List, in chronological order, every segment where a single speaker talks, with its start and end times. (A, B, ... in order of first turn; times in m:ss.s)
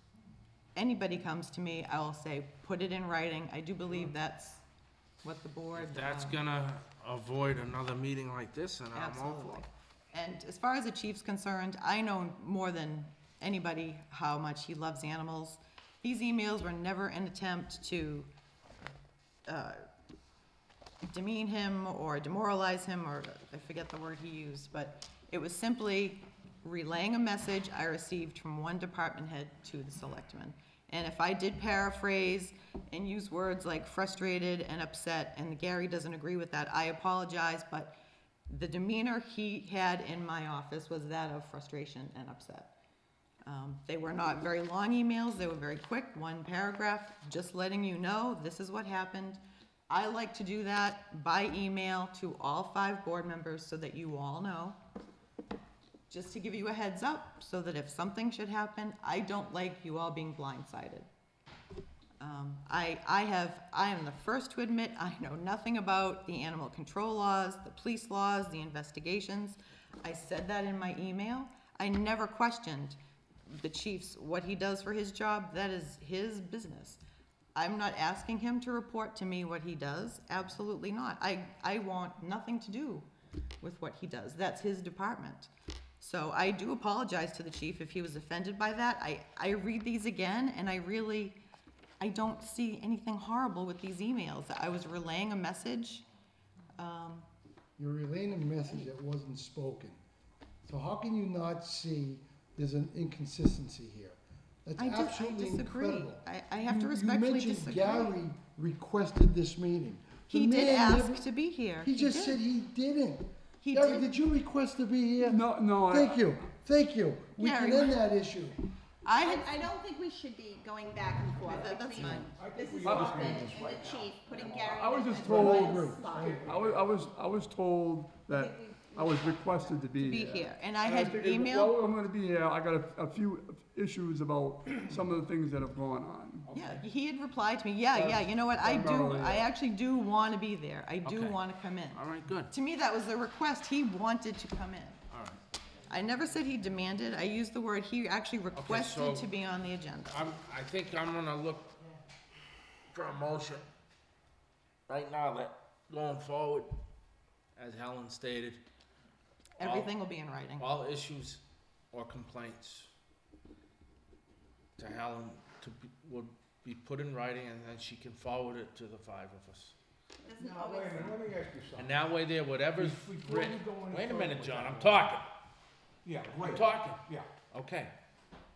0:00.8-0:04.6 A
0:05.2-0:06.4 A
0:05.8-0:09.6 B
0:08.9-0:18.3 A
0:19.5-0:19.8 A
0:21.1-0:37.9 A
0:38.5-0:42.7 A
0:43.5-0:54.8 A
0:56.1-1:01.1 A
1:02.2-1:17.0 A
1:17.6-1:23.1 A
1:23.6-1:31.4 A
1:32.0-1:36.0 A
1:36.8-1:37.3 A
1:37.8-1:40.0 C
1:40.7-1:46.2 C
1:44.8-1:48.2 A
1:46.8-1:58.6 C
1:50.3-1:52.4 A
1:53.6-1:54.1 A
1:55.2-1:56.3 D
1:57.4-1:58.0 A
1:59.0-1:59.6 A
1:59.1-2:06.4 E
2:01.5-2:02.3 A
2:02.1-2:04.6 F
2:02.9-2:03.3 D
2:04.6-2:16.5 D
2:05.2-2:06.5 C
2:05.4-2:06.8 F
2:08.4-2:09.8 E
2:10.0-2:11.8 A
2:16.5-2:16.8 F
2:16.5-2:25.0 A
2:17.9-2:19.5 D
2:21.0-2:21.4 B
2:21.9-2:22.5 B
2:25.1-2:25.4 B
2:25.9-2:30.3 A
2:28.5-2:29.3 B
2:30.1-2:31.7 B
2:32.9-2:33.7 B
2:34.9-2:36.7 B
2:37.6-2:38.6 B
2:39.6-2:40.7 A
2:39.6-2:39.9 B
2:40.6-2:42.9 B
2:44.8-2:49.8 B
2:50.2-2:51.2 E
2:50.3-2:52.0 F
2:51.8-2:55.3 B
2:52.8-2:55.1 F
2:56.0-2:57.3 F
2:56.3-2:57.9 B